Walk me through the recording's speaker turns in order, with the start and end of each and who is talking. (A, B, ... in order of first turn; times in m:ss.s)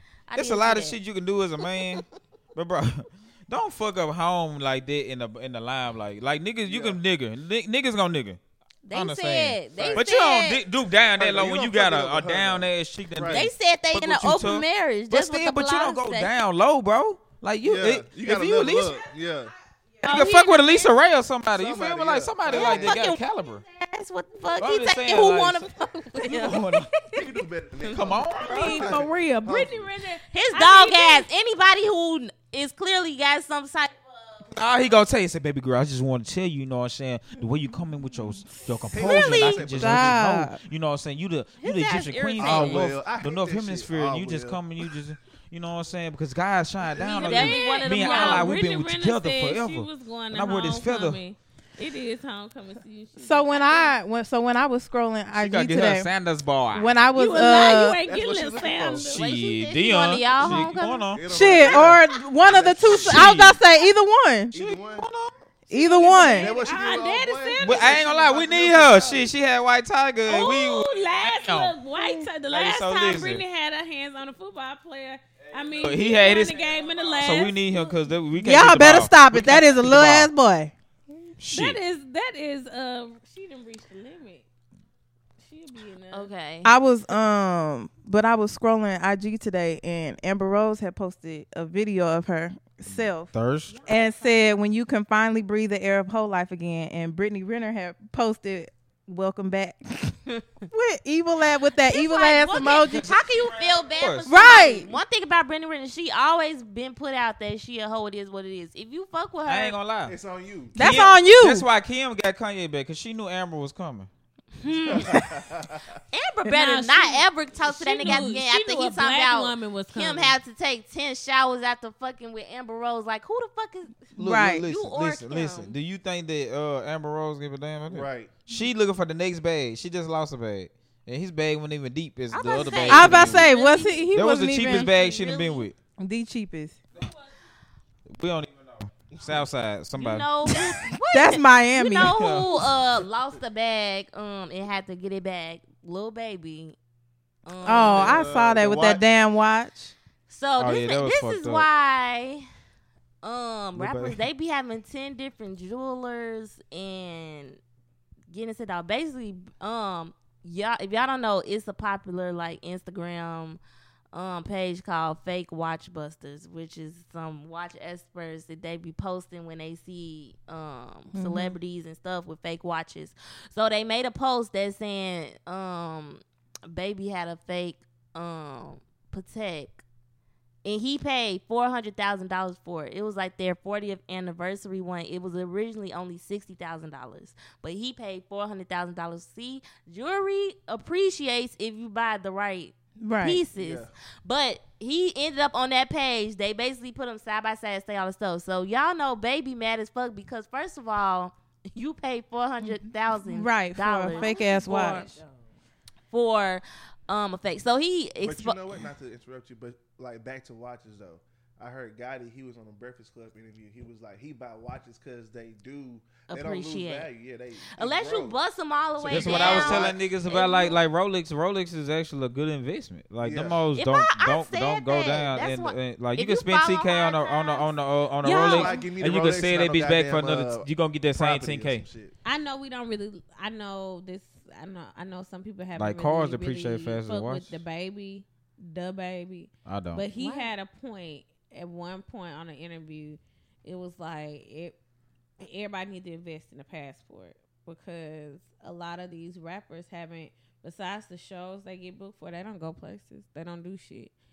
0:00.3-0:01.0 A
0:00.4-0:02.0 B
0:02.6-0:08.4 B
0:06.6-0:07.0 C
0:08.8-0:10.6 A
0:08.9-0:19.0 B
0:09.8-0:10.0 C
0:11.1-0:13.5 C
0:13.3-0:16.3 A
0:17.6-0:19.5 C
0:20.0-0:21.0 A
0:20.0-0:23.6 B
0:21.5-0:23.1 C
0:22.5-0:27.3 A
0:24.6-0:26.9 B
0:27.1-0:29.9 C
0:27.8-0:28.1 A
0:27.9-0:29.0 B
0:28.4-0:31.3 D
0:30.3-0:34.4 A
0:34.5-0:51.2 B
0:38.9-0:40.2 C
0:39.0-0:39.8 A
0:39.8-0:40.6 E
0:41.6-0:42.9 A
0:42.4-0:44.6 C
0:46.9-0:48.5 A
0:47.0-0:54.0 D
0:53.2-0:56.1 E
0:55.4-0:57.0 B
0:56.7-0:58.0 E
0:57.1-0:59.2 D
0:58.0-0:59.2 C
0:59.0-1:01.2 B
0:59.1-1:01.2 A
1:00.4-1:03.4 C
1:01.3-1:04.5 E
1:02.8-1:03.6 B
1:04.5-1:05.1 C
1:04.5-1:05.3 B
1:05.7-1:06.6 E
1:05.8-1:08.3 D
1:06.1-1:09.3 C
1:07.6-1:11.8 B
1:10.3-1:17.9 D
1:12.0-1:12.2 E
1:12.5-1:13.4 B
1:15.8-1:20.3 B
1:18.4-1:20.7 E
1:21.4-1:21.8 B
1:21.5-1:24.4 D
1:25.4-1:26.3 D
1:26.1-1:26.7 A
1:26.6-1:33.3 E
1:32.8-1:33.8 B
1:33.7-1:34.6 D
1:33.8-1:40.2 E
1:40.7-1:43.0 E
1:41.9-1:49.8 A
1:42.7-1:44.6 B
1:44.3-1:44.9 E
1:49.5-1:50.2 B
1:50.1-1:50.8 C
1:50.8-1:51.7 E
1:50.8-1:54.1 B
1:54.6-1:55.2 A
1:54.7-1:56.0 C
1:56.1-2:05.8 A
1:56.6-2:00.4 D
2:04.2-2:13.5 B
2:04.2-2:04.7 E
2:07.9-2:08.3 C
2:12.3-2:15.7 A
2:12.9-2:14.9 E
2:14.1-2:15.8 B
2:16.0-2:16.8 E
2:18.1-2:20.6 B
2:19.1-2:19.5 C
2:19.9-2:26.8 A
2:21.1-2:22.2 E
2:22.0-2:22.5 B
2:27.4-2:28.3 A
2:27.6-2:29.0 C
2:27.6-2:29.9 E
2:30.3-2:32.4 A
2:30.6-2:31.7 B
2:33.2-2:37.6 A
2:33.8-2:34.2 B
2:38.3-2:43.6 A
2:44.1-2:59.8 A
2:51.1-2:51.6 E
3:00.6-3:25.2 A
3:13.0-3:13.4 E
3:13.5-3:13.9 C
3:23.2-3:25.0 E
3:24.1-3:25.5 D
3:26.1-3:28.7 A
3:28.2-3:38.4 C
3:36.3-3:37.1 A
3:37.8-3:40.8 A
3:39.0-3:40.0 C
3:39.1-3:51.8 B
3:43.2-3:43.6 C
3:43.7-3:47.7 A
3:48.2-3:48.9 D
3:48.3-3:52.1 C
3:52.2-4:04.8 D
3:55.8-3:57.6 B
3:59.7-4:00.0 B
4:00.2-4:00.5 A
4:05.4-4:14.1 D